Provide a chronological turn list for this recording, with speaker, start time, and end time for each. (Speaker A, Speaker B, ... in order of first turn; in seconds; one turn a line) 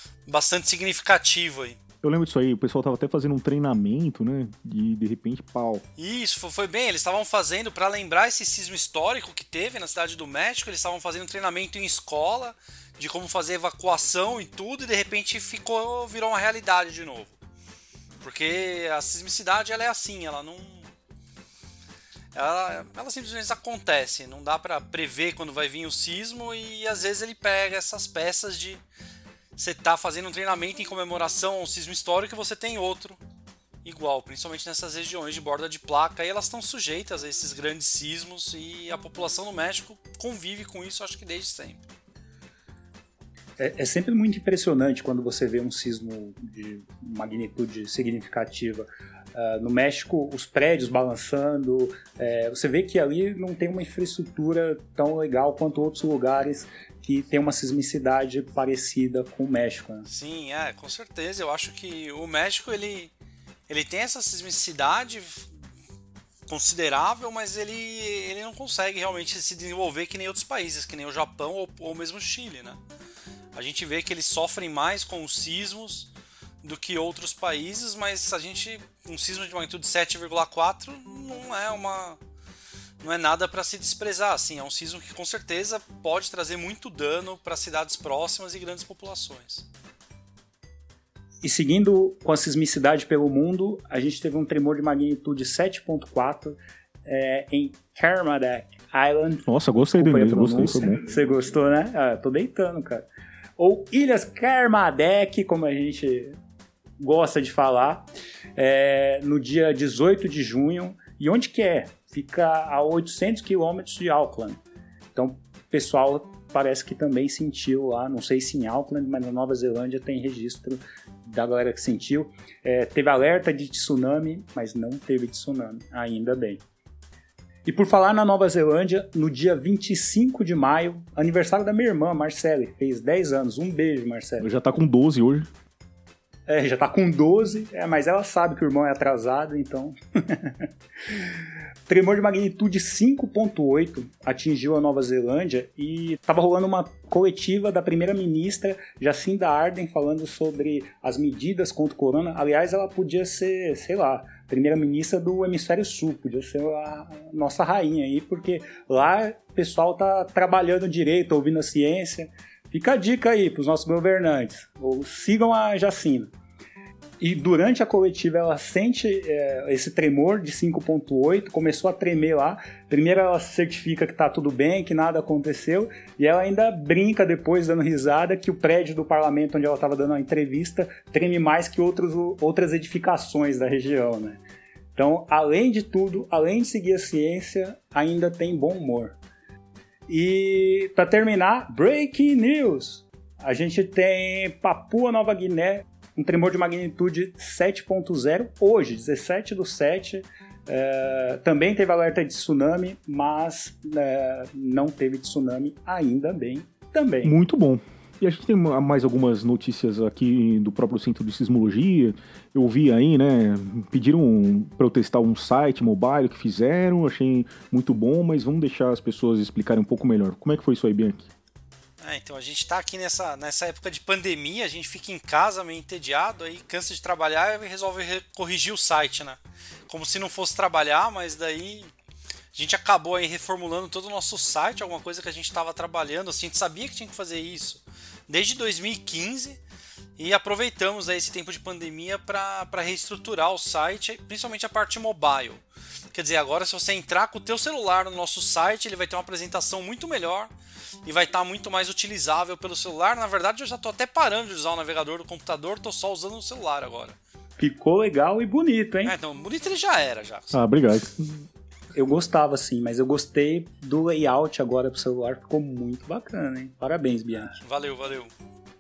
Speaker A: 0.3-1.8
Speaker B: 2.0-5.8
Speaker A: 6.0-17.4
Speaker A: 18.2-20.9
Speaker A: 22.3-28.8
Speaker A: 29.6-33.2
Speaker A: 33.8-41.8
Speaker C: 43.6-60.1
Speaker A: 60.1-63.1
Speaker A: 63.7-65.6
Speaker A: 66.5-72.8
Speaker A: 73.5-76.1
Speaker A: 76.6-82.2
Speaker A: 83.0-89.7
Speaker C: 91.4-103.0
Speaker B: 99.5-101.0
Speaker C: 103.6-106.4
Speaker C: 107.0-114.6
Speaker C: 115.2-126.6
Speaker C: 127.7-134.5
Speaker B: 134.4-135.5
Speaker C: 136.5-166.3
Speaker C: 167.2-184.4
Speaker C: 185.0-189.2
Speaker C: 190.1-207.4
Speaker B: 207.2-221.3
Speaker A: 222.0-231.9
Speaker A: 232.5-239.6
Speaker A: 240.2-245.6
Speaker A: 246.1-250.5
Speaker A: 251.1-257.2
Speaker C: 257.6-259.1
Speaker A: 259.1-260.6
Speaker B: 260.5-261.4
Speaker C: 261.9-267.5
Speaker A: 267.5-268.3